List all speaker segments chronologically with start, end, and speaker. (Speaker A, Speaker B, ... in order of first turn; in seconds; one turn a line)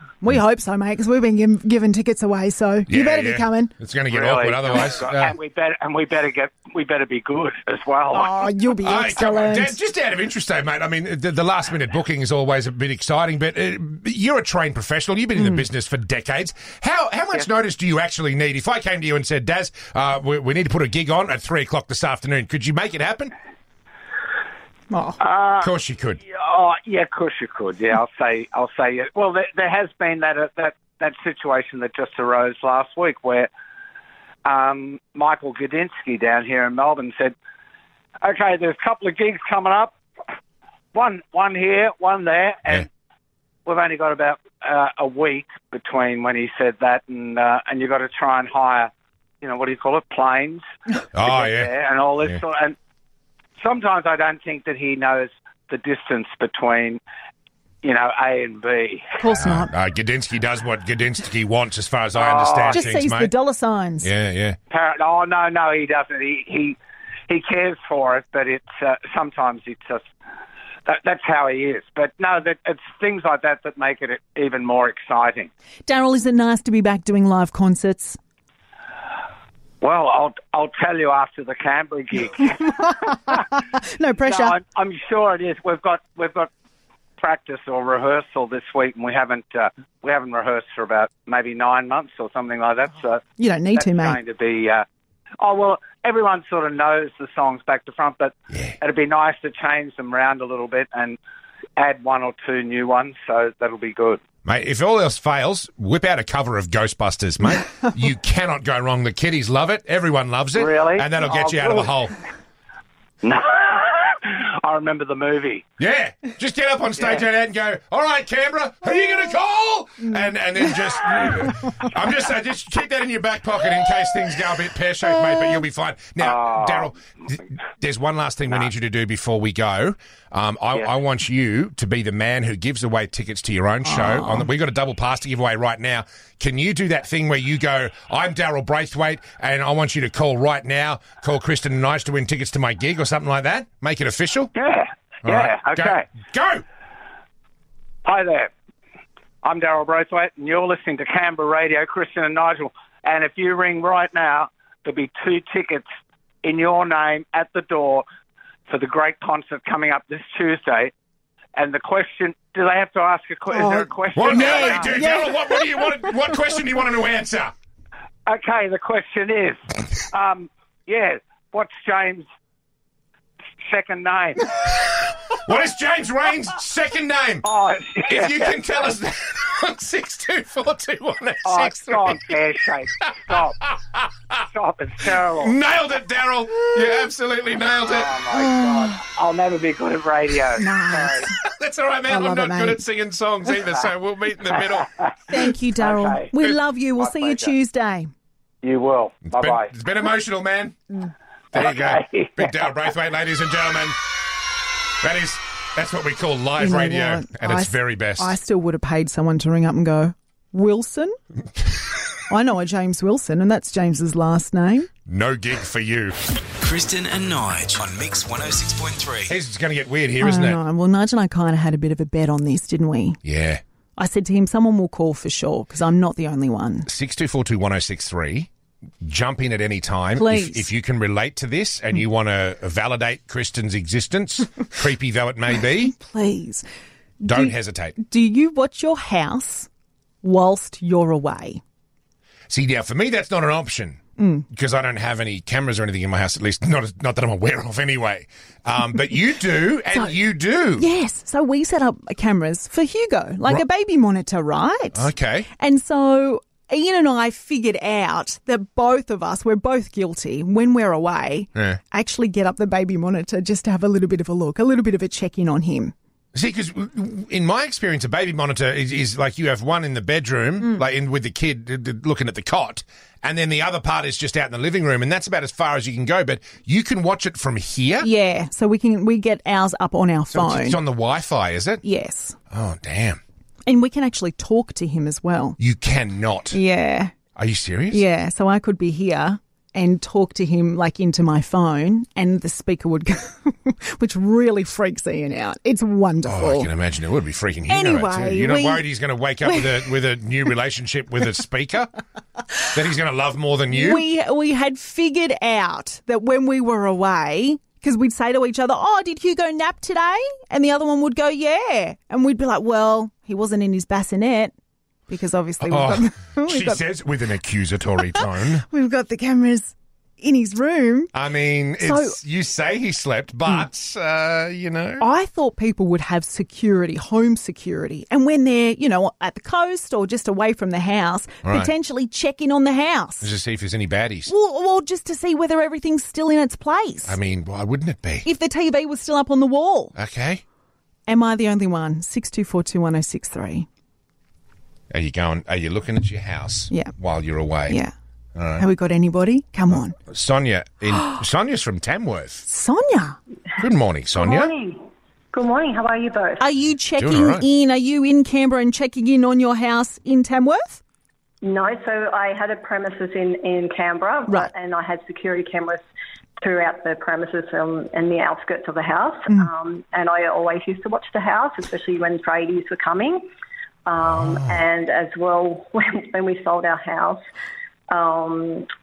Speaker A: 0.2-3.7
Speaker B: 2.9-5.3
Speaker C: 4.1-8.3
Speaker A: 8.1-9.8
Speaker B: 8.8-23.3
Speaker A: 24.9-25.2
Speaker C: 25.2-25.7
Speaker B: 25.6-26.2
Speaker C: 26.3-33.5
Speaker C: 34.5-37.3
Speaker C: 38.2-39.9
Speaker C: 40.9-42.9
Speaker C: 43.6-48.9
Speaker C: 49.4-50.6
Speaker B: 51.1-51.7
Speaker C: 51.2-52.7
Speaker C: 53.6-57.0
Speaker C: 57.8-59.1
Speaker A: 59.2-59.7
Speaker B: 59.4-63.3
Speaker C: 62.1-62.9
Speaker A: 62.7-64.1
Speaker B: 64.0-64.6
Speaker C: 64.7-66.8
Speaker C: 67.3-70.0
Speaker C: 70.8-75.5
Speaker A: 75.9-78.2
Speaker C: 79.8-82.8
Speaker A: 82.6-84.6
Speaker C: 84.2-86.5
Speaker C: 87.2-93.2
Speaker A: 93.4-94.2
Speaker C: 93.7-94.8
Speaker C: 95.4-101.2
Speaker C: 101.8-104.2
Speaker B: 104.4-112.2
Speaker C: 110.5-111.9
Speaker C: 113.2-115.6
Speaker B: 115.8-144.5
Speaker C: 117.0-117.2
Speaker C: 126.2-126.9
Speaker A: 133.9-134.5
Speaker C: 144.6-146.1
Speaker B: 145.2-146.6
Speaker C: 148.1-148.5
Speaker C: 149.4-155.8
Speaker C: 156.4-158.0
Speaker C: 158.7-160.9
Speaker C: 161.5-165.1
Speaker A: 163.5-166.1
Speaker B: 164.1-167.5
Speaker C: 168.3-172.2
Speaker C: 173.6-174.5
Speaker B: 175.3-177.5
Speaker C: 177.4-178.6
Speaker B: 178.1-182.3
Speaker C: 181.4-183.6
Speaker B: 183.0-184.1
Speaker C: 184.4-185.6
Speaker B: 185.2-188.1
Speaker C: 187.8-191.3
Speaker A: 188.3-189.0
Speaker A: 190.6-191.3
Speaker B: 191.3-195.0
Speaker A: 192.1-192.8
Speaker A: 195.3-198.1
Speaker C: 195.8-196.4
Speaker C: 196.9-197.5
Speaker C: 198.6-199.7
Speaker B: 199.3-201.0
Speaker B: 201.5-204.0
Speaker C: 201.5-202.5
Speaker B: 205.0-208.3
Speaker A: 206.6-211.2
Speaker A: 212.3-214.9
Speaker B: 215.1-216.2
Speaker D: 216.6-219.3
Speaker B: 219.3-220.6
Speaker A: 220.2-223.2
Speaker B: 223.2-223.6
Speaker A: 223.9-226.9
Speaker B: 226.9-228.5
Speaker B: 229.0-235.9
Speaker A: 230.1-230.7
Speaker A: 235.6-236.7
Speaker A: 237.2-239.7
Speaker B: 237.2-238.0
Speaker A: 240.2-241.6
Speaker B: 242.5-244.0
Speaker A: 244.2-244.4
Speaker B: 244.5-250.9
Speaker A: 250.8-265.9
Speaker B: 254.9-255.5
Speaker B: 266.3-278.1
Speaker A: 278.0-280.8
Speaker B: 280.3-281.8
Speaker A: 281.8-282.4
Speaker B: 282.5-283.2
Speaker A: 283.6-285.6
Speaker B: 285.6-286.6
Speaker A: 286.5-287.1
Speaker B: 287.4-288.0
Speaker A: 287.9-296.7
Speaker B: 296.2-301.9
Speaker A: 297.7-298.8
Speaker A: 299.4-299.9
Speaker B: 302.7-304.1
Speaker A: 303.7-314.5
Speaker A: 315.1-316.9
Speaker B: 315.6-318.6
Speaker A: 318.1-321.1
Speaker B: 321.1-325.0
Speaker A: 321.8-322.2
Speaker A: 325.0-333.3
Speaker B: 331.4-331.7
Speaker B: 333.2-334.3
Speaker A: 334.3-337.2
Speaker B: 337.1-338.3
Speaker A: 338.2-339.9
Speaker B: 339.9-340.4
Speaker A: 341.1-343.7
Speaker B: 344.9-347.8
Speaker A: 347.7-347.9
Speaker B: 348.4-348.6
Speaker A: 348.6-349.9
Speaker B: 349.7-352.4
Speaker A: 352.5-353.2
Speaker B: 353.6-354.5
Speaker E: 354.2-354.8
Speaker E: 355.3-356.4
Speaker A: 356.4-360.8
Speaker B: 357.0-357.4
Speaker E: 361.4-365.8
Speaker E: 366.4-373.2
Speaker E: 373.9-377.2
Speaker B: 374.0-374.6
Speaker E: 377.9-378.7